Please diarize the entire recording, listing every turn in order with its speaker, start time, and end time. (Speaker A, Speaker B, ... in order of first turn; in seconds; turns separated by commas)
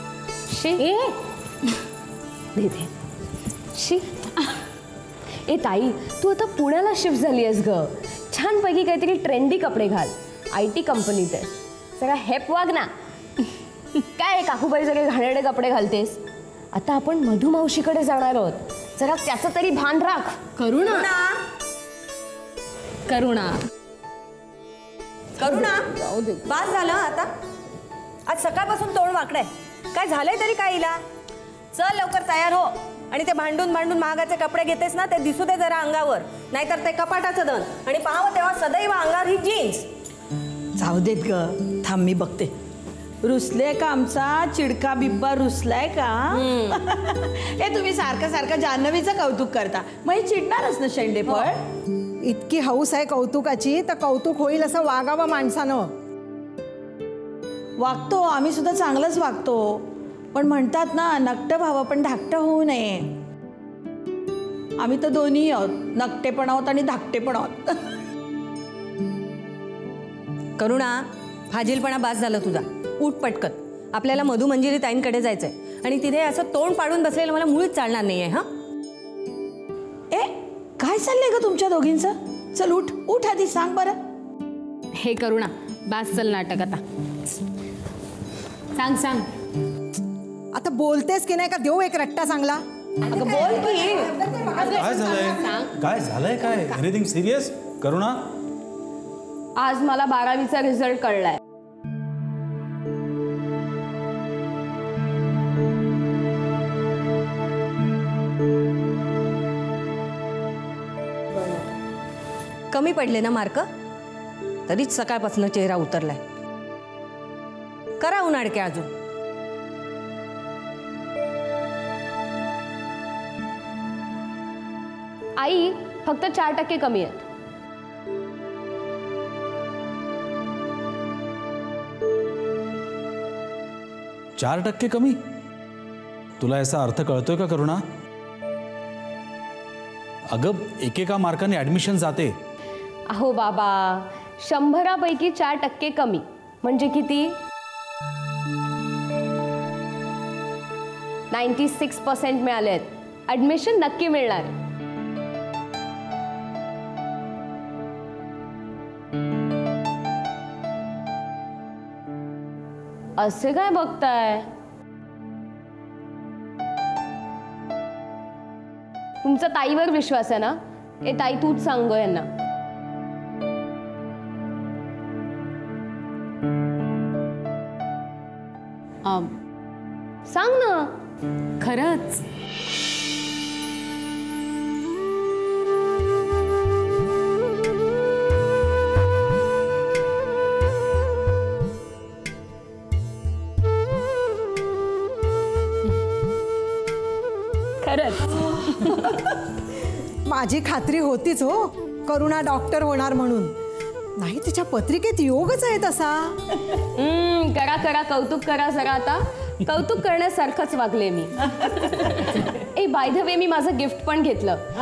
Speaker A: 0.5-0.9, Speaker B: 0.8-1.1, Speaker A: 2.5-2.9, Speaker A: 3.7-4.1, Speaker A: 5.5-12.9, Speaker A: 14.0-16.2, Speaker A: 16.7-20.6, Speaker C: 20.7-21.4, Speaker C: 23.1-23.5, Speaker C: 25.4-25.9, Speaker B: 25.7-26.4, Speaker C: 26.4-27.3, Speaker C: 28.3-31.0, Speaker C: 31.7-39.9, Speaker D: 40.8-42.5, Speaker D: 43.2-51.6, Speaker E: 52.2-55.9, Speaker D: 57.8-63.1, Speaker D: 64.8-67.8, Speaker C: 70.6-78.5, Speaker D: 80.1-84.0, Speaker B: 85.0-86.8, Speaker B: 88.8-89.3, Speaker E: 90.5-95.7, Speaker C: 93.1-94.1, Speaker B: 94.5-94.8, Speaker F: 94.8-98.2, Speaker A: 99.6-101.4, Speaker C: 112.7-113.7, Speaker C: 114.7-116.2, Speaker C: 118.0-118.9, Speaker A: 125.4-127.2, Speaker F: 134.4-135.2, Speaker F: 136.4-137.8, Speaker F: 140.3-142.3, Speaker A: 143.1-147.4, Speaker A: 151.3-154.6, Speaker A: 163.2-164.5, Speaker A: 169.2-172.3, Speaker B: 179.1-179.3, Speaker A: 180.3-180.9, Speaker B: 181.6-182.2, Speaker B: 197.8-199.1, Speaker E: 200.3-203.5, Speaker E: 204.2-206.4, Speaker A: 206.8-214.7